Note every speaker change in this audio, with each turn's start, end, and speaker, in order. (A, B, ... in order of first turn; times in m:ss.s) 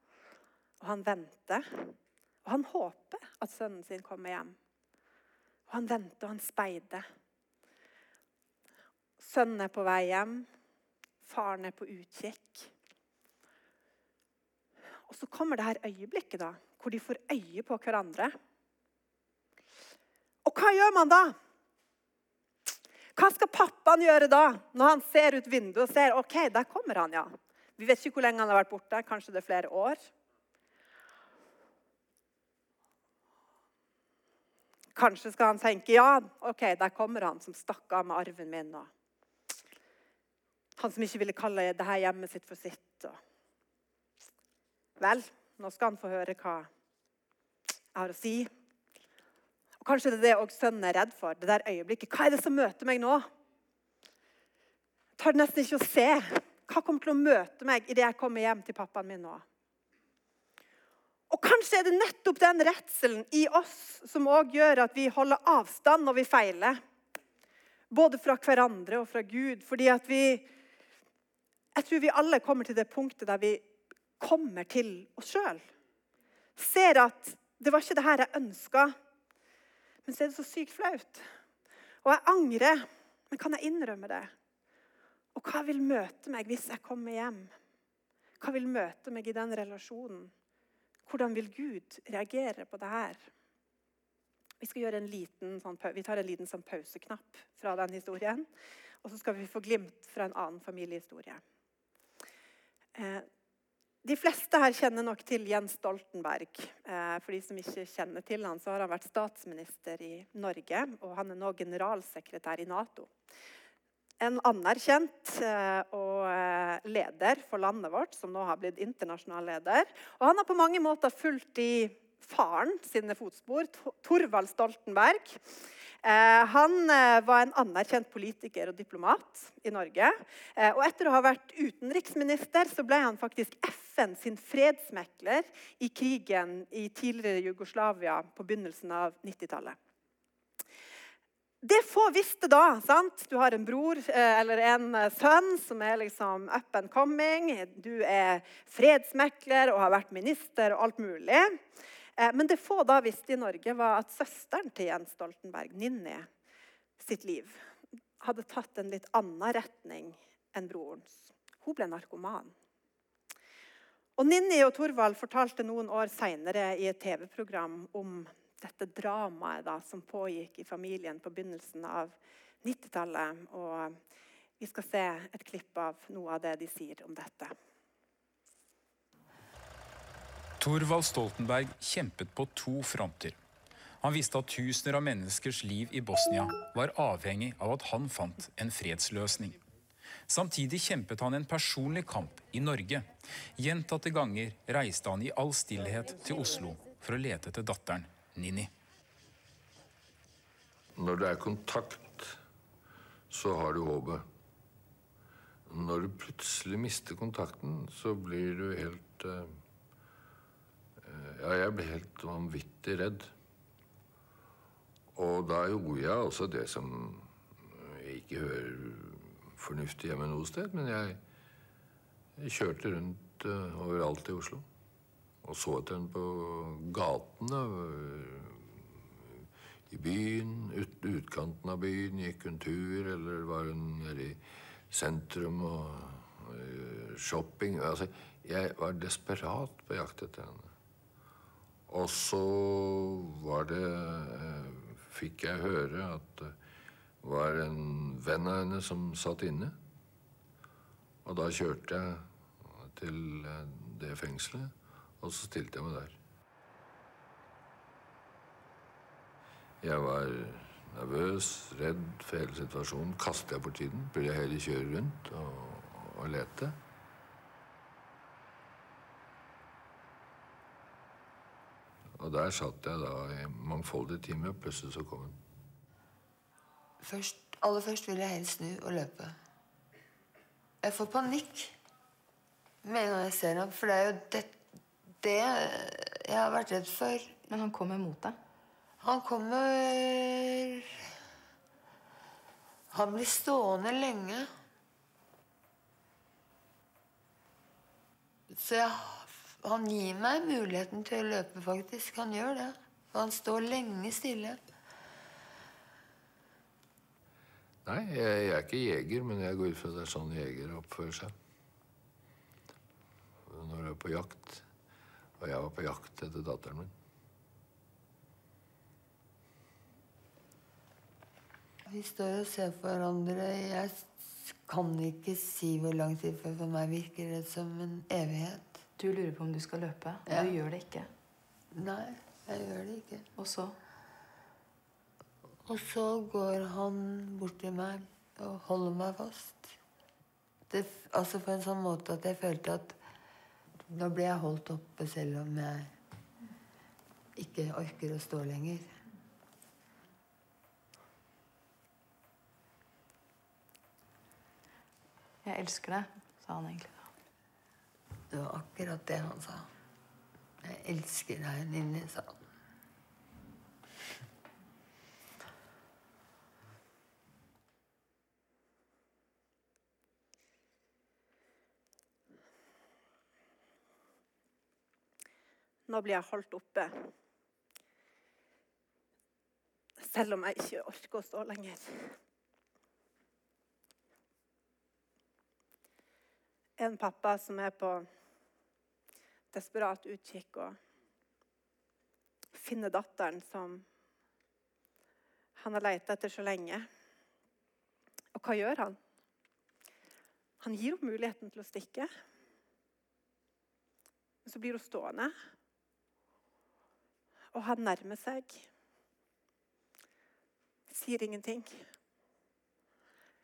0:00.8-0:04.6 A
0:05.7-0:07.0 A
0:09.2-0:10.5 A
0:11.2-0:12.7 A
0:15.1-0:18.3 A
0:20.4-0:21.3 A
0:23.2-0:30.0 A
0:34.9-0:38.9 A
0:40.8-0:43.2 A
0:45.0-0:46.7 A
0:47.9-0:48.5 A
0:49.8-0:53.3 A
0:55.2-0:59.4 A
1:01.3-1:06.8 A
1:07.9-1:10.4 A
1:11.7-1:13.6 A
1:14.2-1:15.6 A
1:16.6-1:18.9 A
1:20.0-1:21.2 A
1:22.0-1:24.3 A
1:25.3-1:27.5 A
1:28.4-1:30.3 A
1:31.0-1:33.2 A
1:34.6-1:38.5 A
1:39.0-1:41.4 A
1:43.0-1:43.3 A
1:44.0-1:53.1 A
1:54.2-2:05.4 A
2:06.0-2:19.8 A
2:21.6-2:31.6 A
2:32.2-2:36.3 A
2:37.0-2:37.5 A
2:38.2-2:42.5 A
2:44.2-2:54.0 A
2:54.6-2:57.5 A
3:00.6-3:03.4 B
3:04.0-3:09.6 B
3:10.3-3:18.7 B
3:20.9-3:22.4 C
3:23.3-3:24.2 C
3:25.7-3:29.5 C
3:31.0-3:33.3 C
3:35.1-3:41.2 C
3:42.4-3:44.6 C
3:45.4-3:48.9 C
3:49.9-4:00.7 C
4:01.9-4:06.5 C
4:07.2-4:09.7 C
4:11.2-4:16.2 C
4:19.8-4:26.8 C
4:32.2-4:35.4 C
4:37.0-4:39.4 D
4:40.8-4:41.7 D
4:42.8-4:44.6 D
4:45.2-4:47.4 D
4:47.5-4:48.4 E
4:49.0-4:51.0 D
4:52.9-4:54.5 D
4:58.5-5:04.6 D
5:07.8-5:11.3 C
5:13.4-5:14.6 C
5:15.4-5:16.9 C
5:21.9-5:28.8 D
5:29.0-5:31.1 E
5:30.2-5:30.5 D
5:31.7-5:33.3 D
5:33.4-5:33.8 E
5:35.6-5:39.7 D
5:40.7-5:43.0 D
5:43.9-5:45.9 D
5:47.4-5:49.0 D
5:55.4-5:57.1 E
5:58.3-5:59.7 D
6:00.6-6:02.4 D
6:15.9-6:16.9 A
6:20.0-6:22.2 A
6:26.8-6:28.0 A
6:29.5-6:30.8 A
6:32.5-6:33.8 A
6:35.6-6:36.8 A
6:38.3-6:39.0 A
6:40.6-6:42.1 A
6:44.4-6:45.3 A
6:47.5-6:48.6 A
6:50.9-6:51.8 A